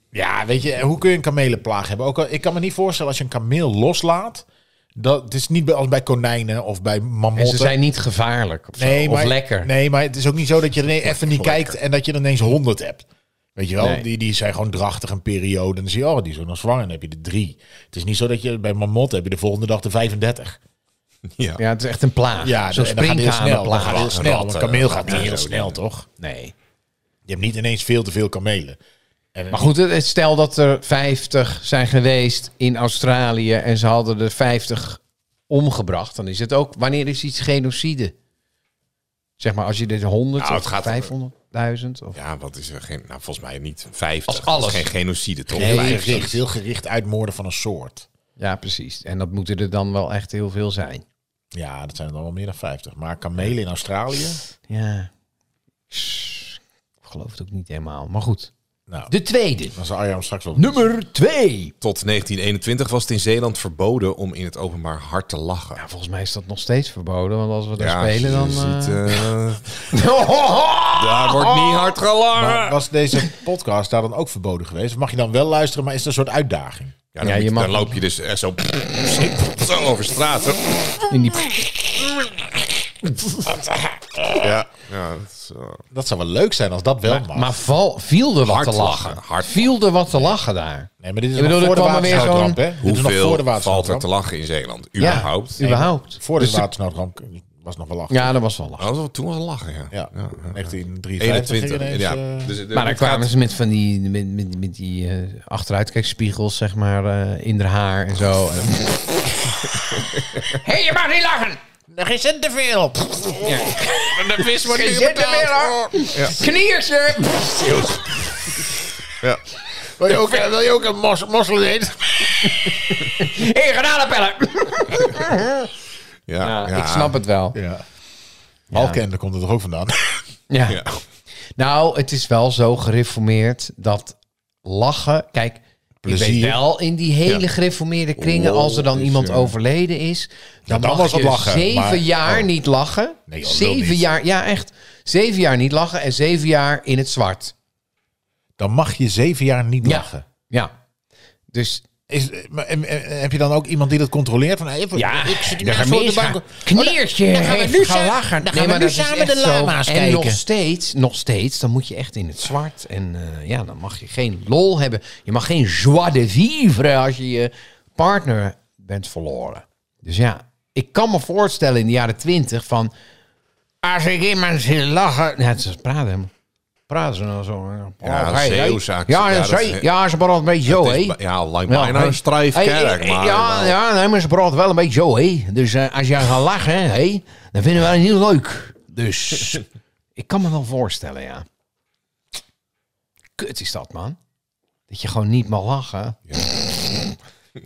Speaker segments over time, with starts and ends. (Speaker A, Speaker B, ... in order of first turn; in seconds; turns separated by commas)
Speaker A: 0.1-7.8, Speaker B: 7.3-9.7, Speaker A: 8.8-20.6, Speaker C: 11.2-11.7, Speaker B: 13.8-14.0, Speaker C: 21.3-21.6, Speaker B: 21.6-24.1, Speaker A: 22.4-26.1, Speaker C: 23.8-25.8, Speaker B: 26.2-26.5, Speaker A: 27.2-28.8, Speaker A: 29.3-29.7, Speaker B: 29.5-38.1, Speaker B: 39.4-42.2, Speaker C: 40.4-41.1, Speaker C: 42.1-46.3, Speaker B: 44.3-44.9, Speaker A: 45.5-48.0, Speaker B: 45.5-46.4, Speaker B: 48.4-51.0, Speaker A: 51.5-54.4, Speaker B: 54.7-55.1, Speaker B: 55.9-58.5, Speaker B: 59.1-59.7, Speaker A: 59.7-60.9, Speaker B: 60.5-61.7, Speaker C: 61.8-65.8, Speaker B: 65.8-69.3, Speaker C: 67.8-69.9, Speaker B: 69.8-71.9, Speaker C: 70.9-72.8, Speaker A: 72.3-76.9, Speaker C: 77.1-81.1, Speaker B: 77.2-78.0, Speaker B: 81.1-81.7, Speaker C: 84.3-85.8, Speaker A: 85.9-87.5, Speaker B: 87.1-92.6, Speaker C: 88.4-89.7, Speaker A: 91.0-94.1, Speaker C: 92.8-95.6, Speaker B: 95.0-96.7, Speaker A: 95.0-98.3, Speaker B: 98.1-98.9, Speaker C: 98.8-103.3, Speaker A: 99.9-102.5, Speaker B: 102.7-111.6, Speaker A: 111.9-116.0, Speaker B: 113.4-118.5, Speaker A: 120.0-122.7, Speaker B: 122.5-125.7, Speaker C: 126.3-127.2, Speaker B: 126.4-127.6, Speaker A: 127.5-127.8, Speaker A: 128.7-129.9, Speaker B: 128.7-129.0, Speaker B: 130.5-130.8, Speaker C: 130.7-131.0, Speaker B: 131.6-147.5, Speaker A: 136.0-136.6, Speaker C: 138.2-139.5, Speaker A: 140.7-142.5, Speaker A: 143.3-144.1, Speaker A: 148.6-150.2, Speaker B: 149.8-150.7, Speaker B: 151.5-151.8, Speaker A: 152.1-160.4, Speaker B: 154.9-172.9, Speaker B: 173.8-176.3, Speaker B: 176.9-189.6, Speaker C: 178.0-179.9, Speaker C: 180.6-183.8, Speaker B: 190.2-191.4, Speaker B: 193.4-194.2, Speaker B: 194.9-196.2